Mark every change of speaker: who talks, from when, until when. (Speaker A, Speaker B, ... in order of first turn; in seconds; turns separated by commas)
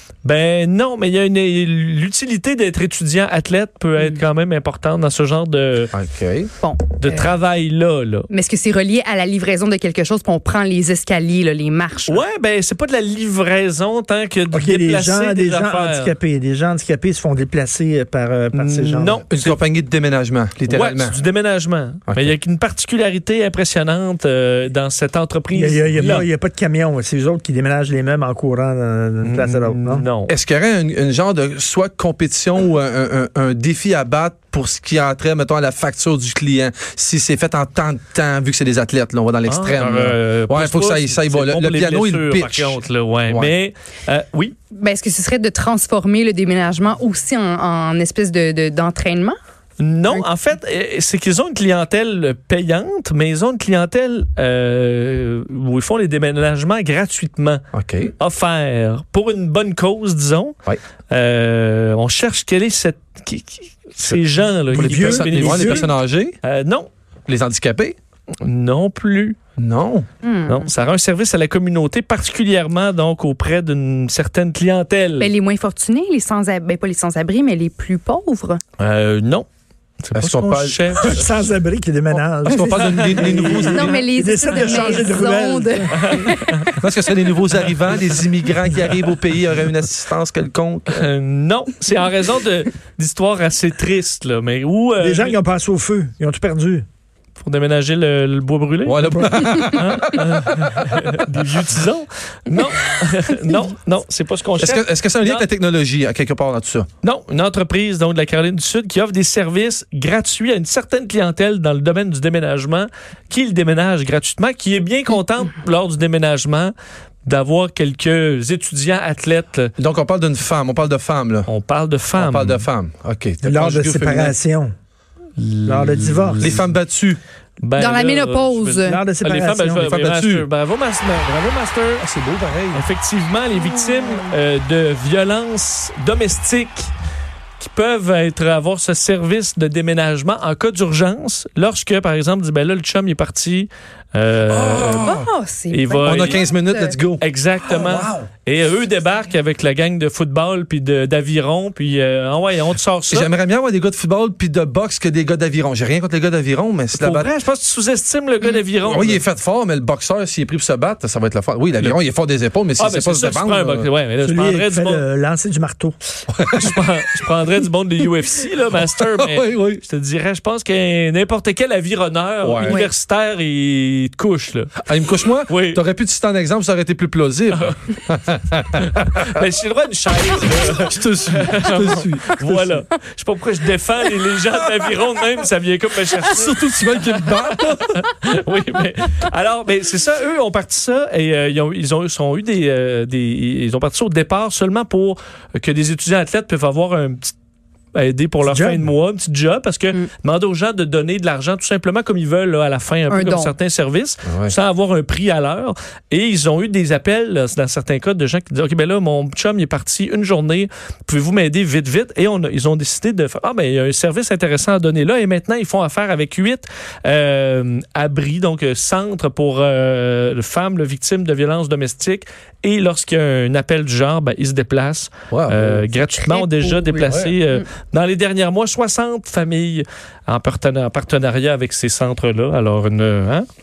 Speaker A: 0.2-5.9, Speaker B: 5.9-6.5, Speaker C: 6.6-7.3, Speaker A: 7.0-8.3, Speaker C: 8.3-12.2, Speaker A: 12.1-16.1, Speaker D: 14.5-19.2, Speaker A: 18.5-19.6, Speaker B: 19.3-21.2, Speaker A: 20.7-26.3, Speaker B: 22.1-22.3, Speaker D: 25.5-30.1, Speaker A: 29.2-30.3, Speaker B: 30.3-43.5, Speaker A: 39.5-44.5, Speaker C: 44.7-49.4, Speaker A: 49.8-57.6, Speaker B: 57.7-58.1, Speaker A: 58.1-60.5, Speaker A: 61.1-66.9, Speaker D: 64.7-65.9, Speaker B: 64.7-66.4, Speaker B: 67.3-68.0, Speaker A: 68.4-69.4, Speaker B: 69.6-70.1, Speaker C: 70.2-70.7, Speaker A: 70.5-75.3, Speaker C: 75.2-78.6, Speaker A: 78.8-79.5, Speaker A: 80.0-81.3, Speaker B: 80.1-80.8, Speaker D: 81.0-86.3, Speaker B: 82.1-83.9, Speaker A: 82.7-83.9, Speaker C: 83.7-86.7, Speaker A: 86.0-86.7, Speaker B: 86.7-91.0, Speaker D: 88.7-89.0, Speaker A: 90.9-95.4, Speaker D: 95.0-96.8, Speaker A: 97.4-105.5, Speaker B: 98.8-100.8, Speaker B: 104.6-106.9, Speaker A: 107.0-119.7, Speaker B: 119.8-121.5, Speaker A: 121.5-122.7, Speaker B: 122.2-124.4, Speaker D: 123.4-124.7, Speaker A: 125.4-126.7, Speaker D: 125.7-126.5, Speaker B: 126.4-127.2, Speaker A: 127.6-132.0, Speaker C: 127.8-129.0, Speaker D: 128.8-129.8, Speaker B: 129.8-130.5, Speaker B: 132.0-132.8, Speaker A: 132.7-136.9, Speaker A: 137.6-145.1, Speaker B: 144.5-145.3, Speaker C: 145.0-147.0, Speaker A: 145.7-146.4, Speaker B: 146.0-148.3, Speaker A: 147.2-153.3, Speaker B: 153.1-157.3, Speaker A: 156.9-159.2, Speaker B: 158.8-163.9, Speaker A: 162.8-165.0, Speaker D: 164.2-165.9, Speaker B: 166.3-166.8, Speaker A: 166.5-174.7, Speaker B: 168.8-169.8, Speaker B: 172.4-172.8, Speaker C: 172.6-172.9, Speaker B: 174.8-179.3, Speaker A: 175.5-175.8, Speaker A: 177.5-177.9, Speaker A: 178.8-197.3, Speaker B: 180.7-182.8, Speaker B: 186.2-187.9, Speaker A: 197.9-233.5, Speaker D: 198.4-198.9, Speaker C: 203.1-203.6, Speaker B: 204.2-204.5, Speaker B: 225.3-225.9, Speaker C: 226.0-226.8, Speaker B: 226.9-227.3